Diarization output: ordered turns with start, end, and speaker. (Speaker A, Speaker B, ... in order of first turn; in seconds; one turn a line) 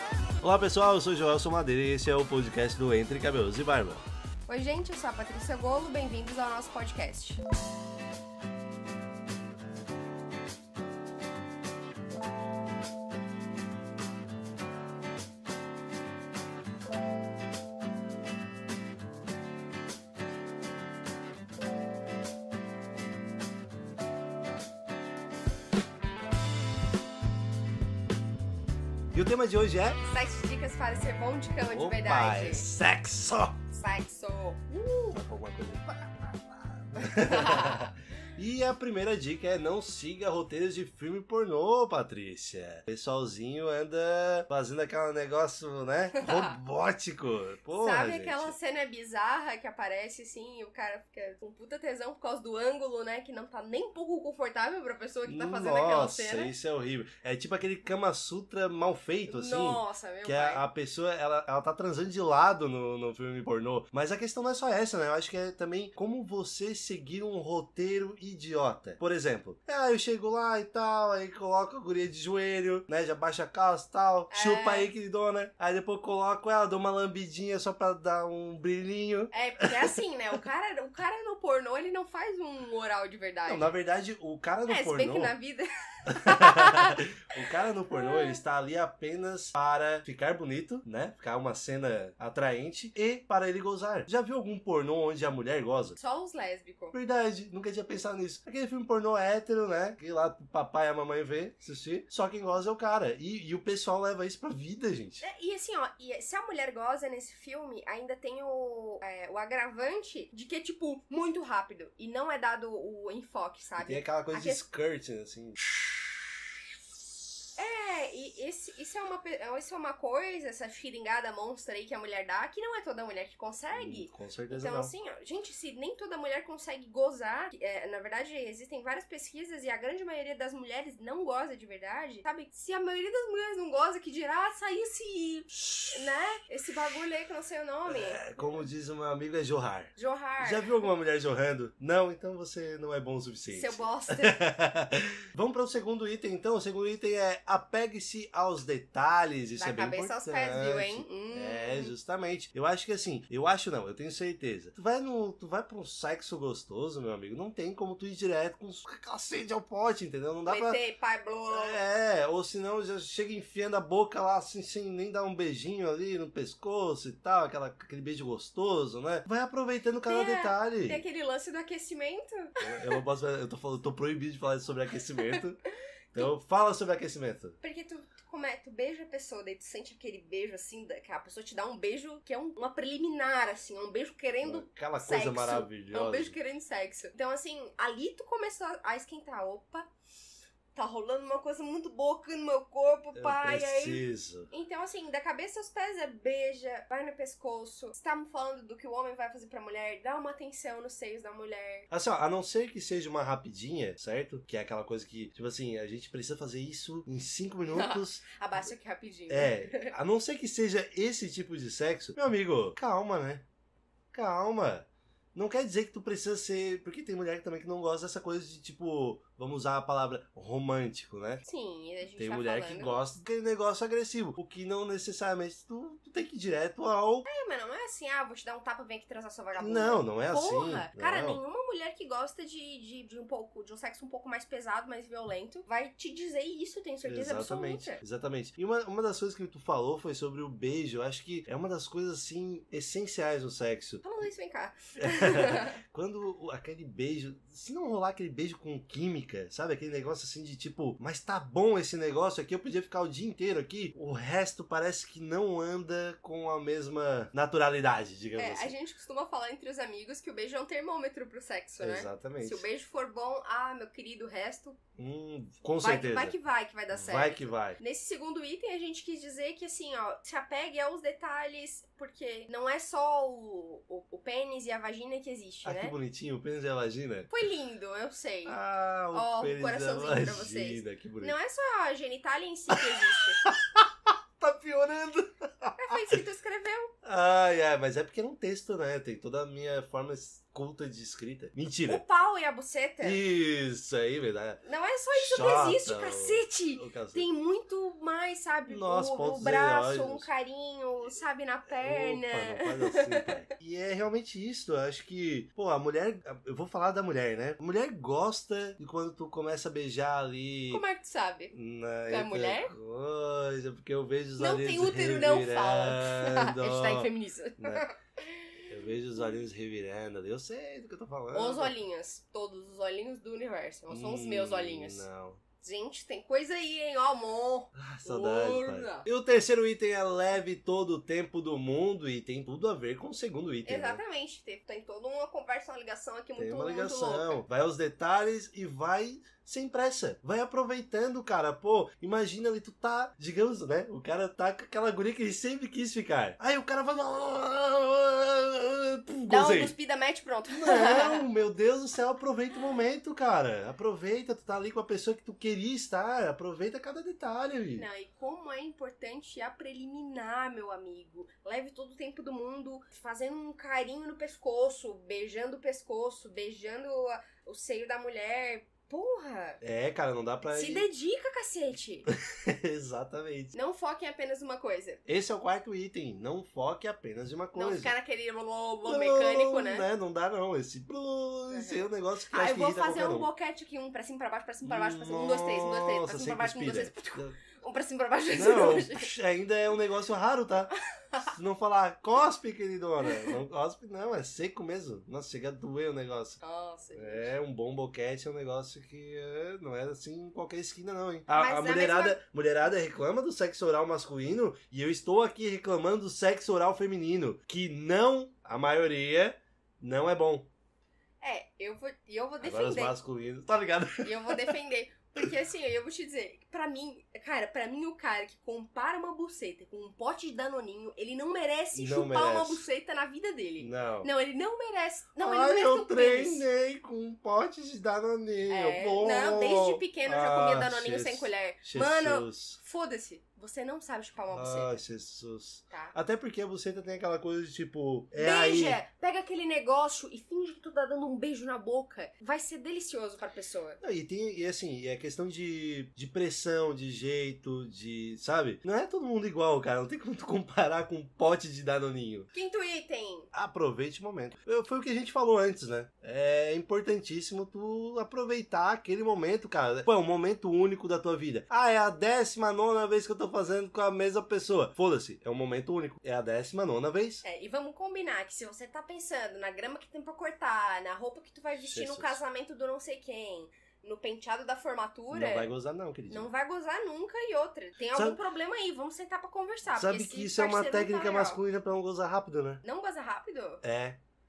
Speaker A: 0.4-4.0
Speaker B: 4.5-7.4
Speaker A: 29.1-30.0
Speaker B: 30.0-32.7
Speaker A: 31.6-33.6
Speaker B: 33.7-35.2
Speaker A: 35.1-48.5
Speaker B: 37.0-37.9
Speaker B: 46.1-46.5
Speaker B: 47.8-56.5
Speaker A: 55.3-79.9
Speaker B: 59.3-60.6
Speaker B: 74.3-74.9
Speaker B: 79.3-83.7
Speaker A: 83.4-85.3
Speaker B: 84.7-87.0
Speaker A: 86.2-96.0
Speaker B: 87.9-88.4
Speaker B: 96.0-96.9
Speaker A: 96.9-105.2
Speaker B: 105.2-114.6
Speaker A: 113.8-116.0
Speaker B: 117.6-138.7
Speaker A: 123.7-124.9
Speaker A: 135.6-136.1
Speaker A: 137.9-160.8
Speaker B: 140.0-140.8
Speaker B: 143.5-144.4
Speaker B: 149.6-151.9
Speaker B: 160.5-161.8
Speaker A: 161.5-171.0
Speaker B: 170.1-173.0
Speaker A: 172.6-175.6
Speaker B: 175.2-175.4
Speaker A: 176.1-177.6
Speaker B: 177.6-189.9
Speaker A: 184.4-186.4
Speaker B: 190.8-201.9
Speaker A: 193.2-194.5
Speaker A: 201.9-208.2
Speaker B: 207.7-209.9
Speaker A: 209.3-213.4
Speaker A: 214.1-221.4
Speaker B: 221.4-223.0
Speaker A: 222.1-227.3
Speaker B: 227.2-238.0
Speaker A: 229.6-231.4
Speaker A: 237.0-244.0
Speaker B: 244.0-245.8
Speaker A: 245.0-258.7
Speaker B: 258.4-264.8
Speaker A: 261.8-262.7
Speaker A: 265.0-266.4
Speaker B: 265.8-275.9
Speaker A: 266.9-267.8
Speaker A: 275.6-277.3
Speaker B: 277.3-278.6
Speaker A: 278.4-281.4
Speaker B: 279.1-283.4
Speaker A: 282.7-286.1
Speaker B: 285.8-286.9
Speaker A: 287.0-292.0
Speaker B: 291.9-293.2
Speaker A: 293.0-297.3
Speaker B: 294.6-303.4
Speaker A: 298.7-300.3
Speaker A: 301.7-310.8
Speaker B: 310.7-311.5
Speaker A: 311.5-317.9
Speaker B: 312.1-312.7
Speaker B: 314.4-318.6
Speaker A: 318.7-321.8
Speaker B: 321.3-325.1
Speaker A: 323.9-325.4
Speaker B: 325.6-329.1
Speaker A: 327.8-334.0
Speaker B: 333.6-337.4
Speaker A: 336.4-349.8
Speaker B: 349.3-351.3
Speaker A: 350.5-357.9
Speaker B: 357.7-369.6
Speaker A: 369.6-370.9
Speaker B: 370.5-372.1
Speaker A: 372.1-373.5
Speaker B: 373.5-375.0
Speaker A: 375.1-377.9
Speaker B: 377.6-379.9
Speaker A: 378.9-383.3
Speaker B: 381.5-389.1
Speaker A: 384.6-387.4
Speaker A: 388.3-396.4
Speaker B: 390.8-391.3
Speaker B: 393.0-393.4
Speaker B: 396.4-397.4
Speaker A: 396.9-410.5
Speaker B: 401.3-402.2
Speaker B: 411.2-413.0
Speaker A: 412.4-414.6
Speaker B: 414.0-426.4
Speaker A: 421.7-422.7
Speaker A: 423.6-424.1
Speaker A: 425.2-432.6
Speaker B: 428.5-434.8
Speaker A: 434.3-438.8
Speaker B: 438.1-443.8
Speaker A: 443.8-452.3
Speaker B: 452.3-453.3
Speaker A: 453.3-467.2
Speaker B: 467.2-475.5
Speaker A: 471.6-472.2
Speaker A: 475.1-476.3
Speaker B: 476.1-481.4
Speaker A: 477.9-478.2
Speaker A: 479.7-482.6
Speaker B: 482.6-483.6
Speaker A: 483.6-484.0